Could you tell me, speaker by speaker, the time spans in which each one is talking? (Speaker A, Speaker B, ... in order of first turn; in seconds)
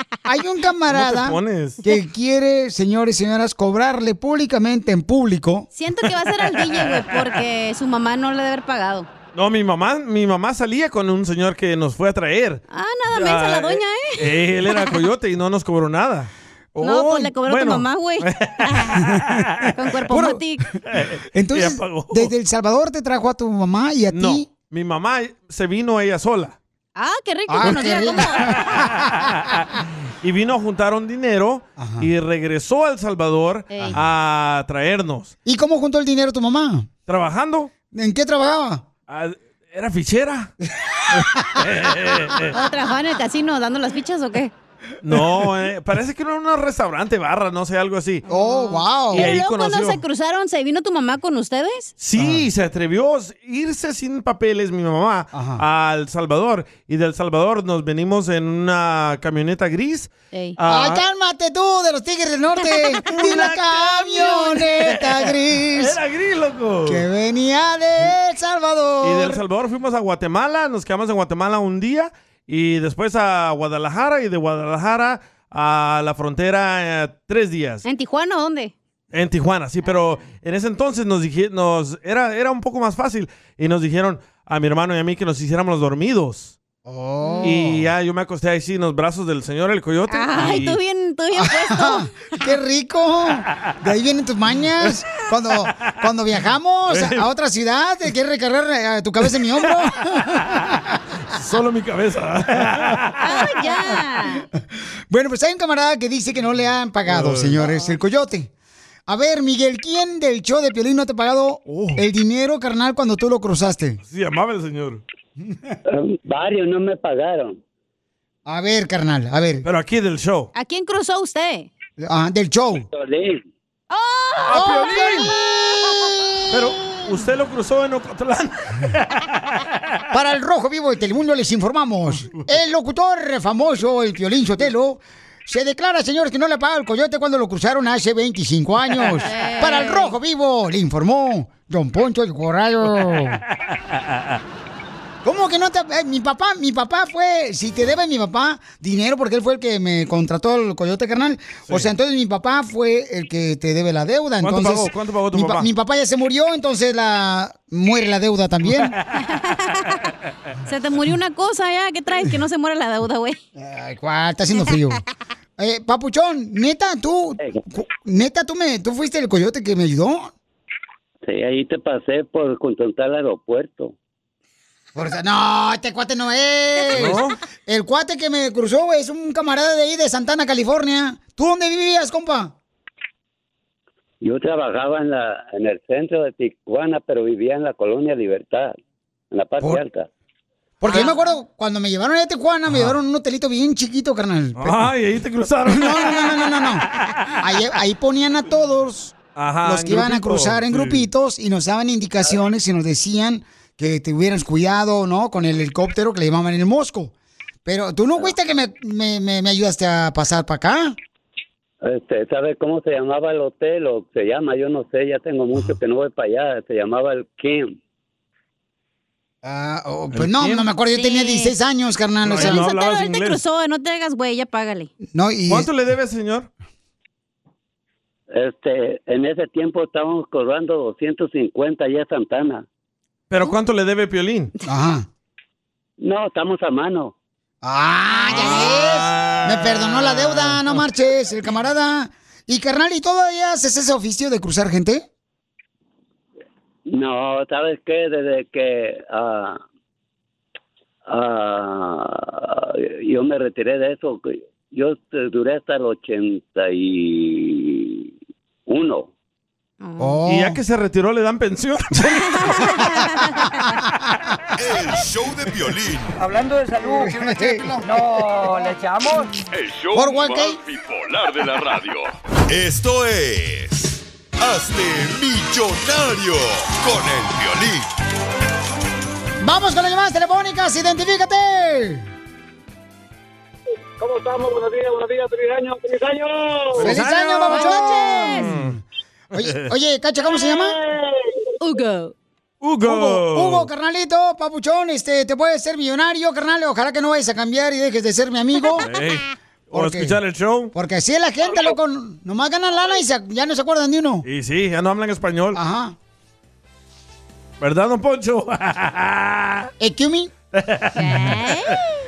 Speaker A: 0.2-5.7, 16.8-17.3, 19.0-19.3, 20.1-20.4, 21.3-24.5, 27.5-29.2, 31.8-32.1, 35.4-36.9, 37.9-38.9, 41.1-41.6, 48.3-49.3, 52.2-52.5, 55.3-55.6, 60.6-66.0, 66.8-69.4, 86.8-87.9, 91.3-101.0, 105.1-108.5, 109.1-114.0, 115.4-115.8, 118.5-119.7, 122.0-122.9, 124.5-127.2, 130.1-143.4, 145.2-158.9, 163.5-165.0, 165.6-170.3, 174.9-182.5, 190.8-194.9, 195.7-196.8, 197.4-207.1, 207.6-210.9, 219.4-222.6, 225.1-225.7, 234.6-235.1, 237.6-245.1, 260.0-260.6, 266.8-268.1, 269.9-270.6, 279.4-282.1, 286.8-288.8, 289.3-290.8, 292.8-298.9, 299.7-300.2, 300.7-304.2, 305.5-305.9, 309.8-310.3
Speaker B: 0.9-1.8, 9.3-16.3, 17.4-19.7, 20.9-22.3, 24.1-26.6, 28.4-29.6, 30.2-35.3, 37.1-37.7, 39.1-40.5, 41.1-42.5, 45.0-48.2, 49.1-50.0, 52.0-61.0, 63.1-67.0, 69.0-77.8, 79.1-86.6, 87.4-90.8, 96.9-97.2, 101.3-103.2, 107.1-107.7, 111.7-112.0, 114.0-115.0, 119.6-120.5, 124.5-125.3, 126.5-130.0, 143.6-144.4, 154.4-155.7, 176.9-177.4, 192.7-192.9, 194.6-196.4, 197.0-197.3, 199.3-201.1, 220.1-220.7, 222.2-223.4, 225.5-226.5, 233.3-234.5, 238.3-240.8, 260.2-263.0, 286.7-287.8, 288.4-288.8, 289.4-289.7, 292.6-293.7, 298.8-300.7, 304.2-305.6, 307.6-309.7, 310.5-311.4
Speaker C: 5.7-9.1, 12.7-14.9, 16.8-19.0, 19.7-20.6, 26.9-28.6, 33.7-34.0, 42.5-44.5, 48.3-51.9, 77.8-78.7, 87.2-87.5, 90.1-92.1, 103.2-104.5, 120.5-121.7, 123.9-126.1, 139.2-140.1, 159.2-160.1, 160.6-163.4, 190.9-191.2, 220.9-221.5, 222.3-224.9, 238.3-238.8, 259.8-260.1, 262.4-263.5, 287.5-288.5, 291.6-292.1, 310.9-311.8
Speaker D: 115.9-117.6, 122.9-123.4, 171.2-173.9, 184.2-188.8, 189.3-190.1, 211.8-217.8, 228.3-232.6, 236.0-237.1, 246.9-249.6, 251.1-258.1, 258.7-259.1
Speaker E: 264.6-266.1, 272.5-277.9
Speaker F: 266.2-269.3
Speaker G: 269.5-272.1
Speaker H: 284.0-286.7, 290.6-291.0